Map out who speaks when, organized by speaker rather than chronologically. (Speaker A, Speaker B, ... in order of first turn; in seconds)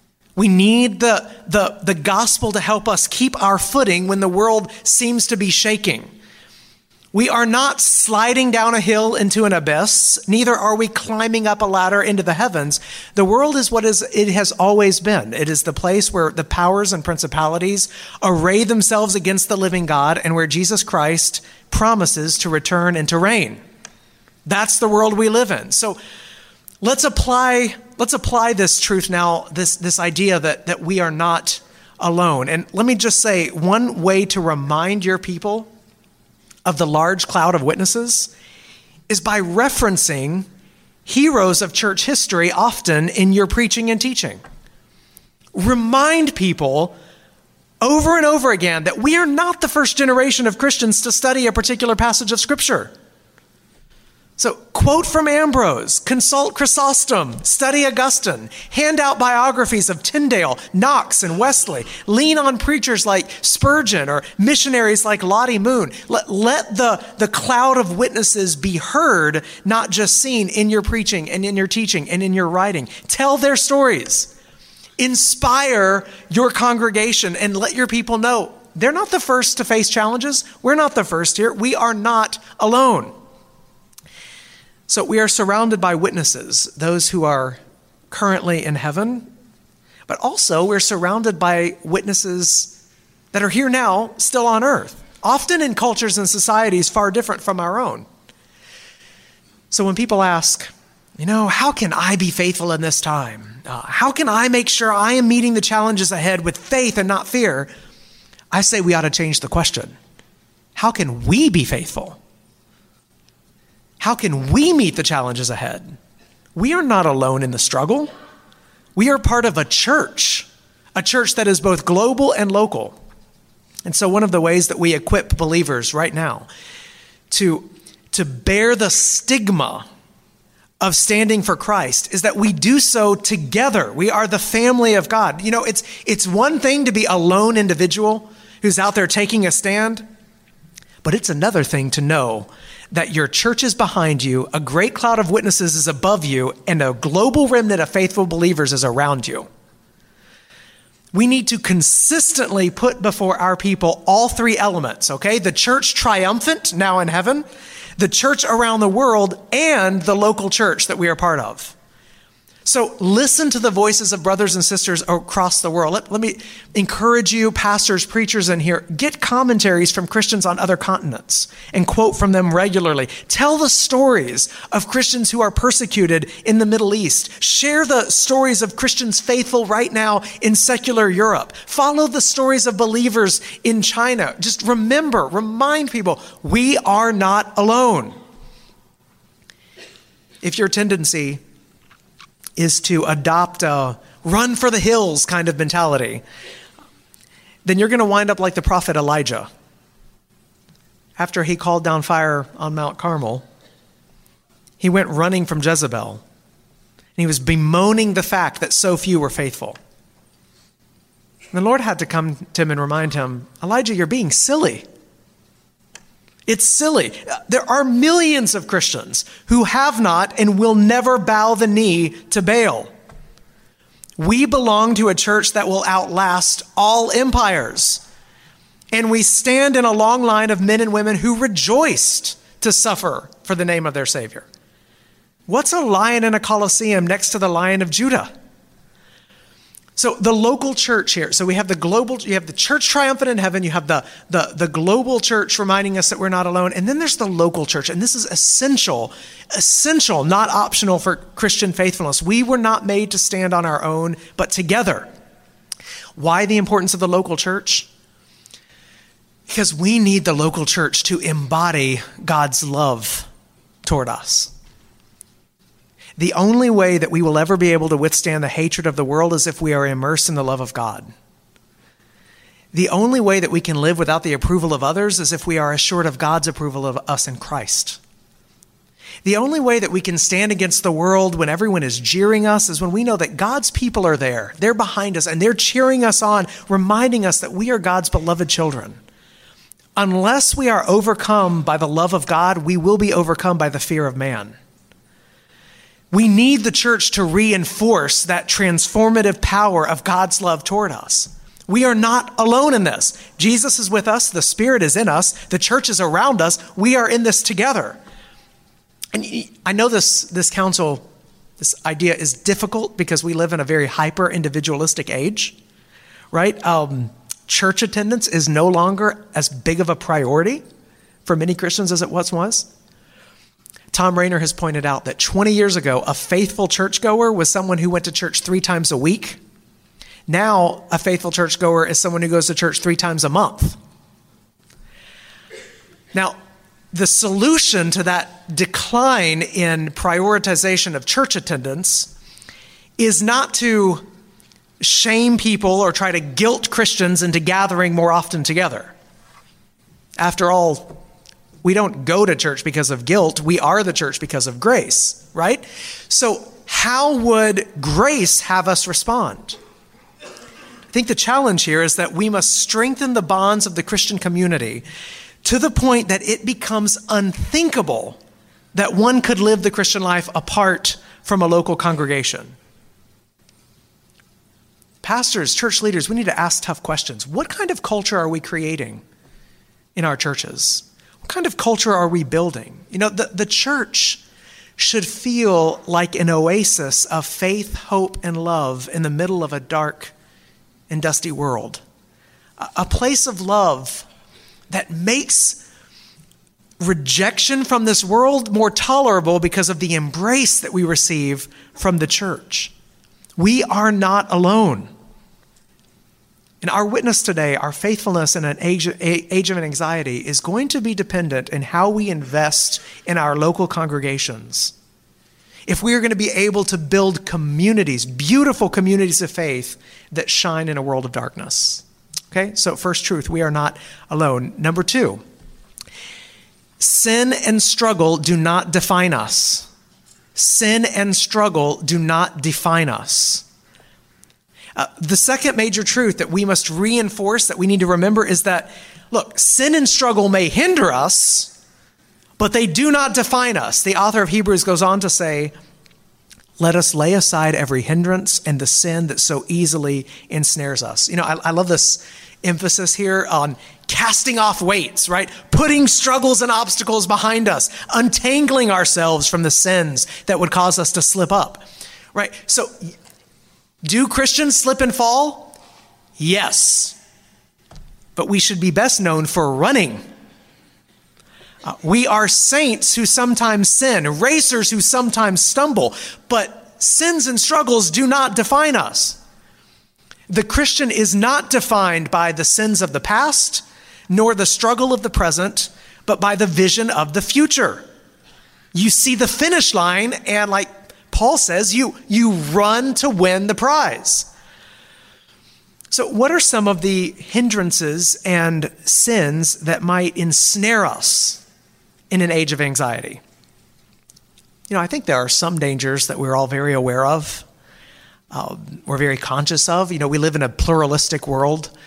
Speaker A: 0.4-6.1, 7.1-23.6, 24.5-26.0, 26.8-35.7, 36.6-38.3, 39.1-40.5, 41.1-44.4, 45.5-47.0, 47.8-52.9, 54.4-74.3, 75.0-83.1, 84.9-87.6, 88.1-89.3, 90.1-92.8, 93.3-98.1, 99.7-107.7, 108.5-110.0, 110.8-112.2, 114.0-116.0, 116.5-118.1, 119.0-123.0, 123.8-126.5, 127.3-129.9, 130.8-140.1, 141.0-149.5, 151.1-157.4, 158.0-161.8, 162.7-188.2, 190.4-191.4, 192.6-196.2, 197.7-199.5, 201.2-203.4, 204.8-206.2, 207.2-209.8, 211.5-214.8, 216.5-222.9, 224.2-228.0, 228.9-234.5, 235.5-238.3, 240.0-255.1, 256.2-257.9, 259.5-263.3, 263.8-264.5, 266.2-271.1, 272.7-278.0, 279.2-289.0, 290.0-294.6, 296.1-308.0, 309.1-311.1, 311.6-315.6, 316.3-320.6, 321.3-322.7, 323.9-329.4, 330.3-333.8, 336.9-342.1, 343.0-344.0, 344.8-348.9, 350.2-351.0, 351.6-359.6, 360.9-364.9, 365.4-368.2, 368.7-372.6, 375.0-379.0, 379.9-384.2, 384.8-390.1, 390.9-391.8, 392.6-394.1, 394.7-395.6, 396.8-402.7, 403.4-404.9, 406.6-414.7, 415.7-425.2, 426.8-429.7, 430.4-433.4, 434.8-441.5, 442.4-445.5, 446.6-461.6, 462.1-462.9, 463.8-465.6, 466.2-467.0, 468.2-470.0, 471.6-479.2, 480.3-487.9, 488.7-494.3, 495.9-501.4, 502.1-503.2, 504.7-507.5, 508.3-511.7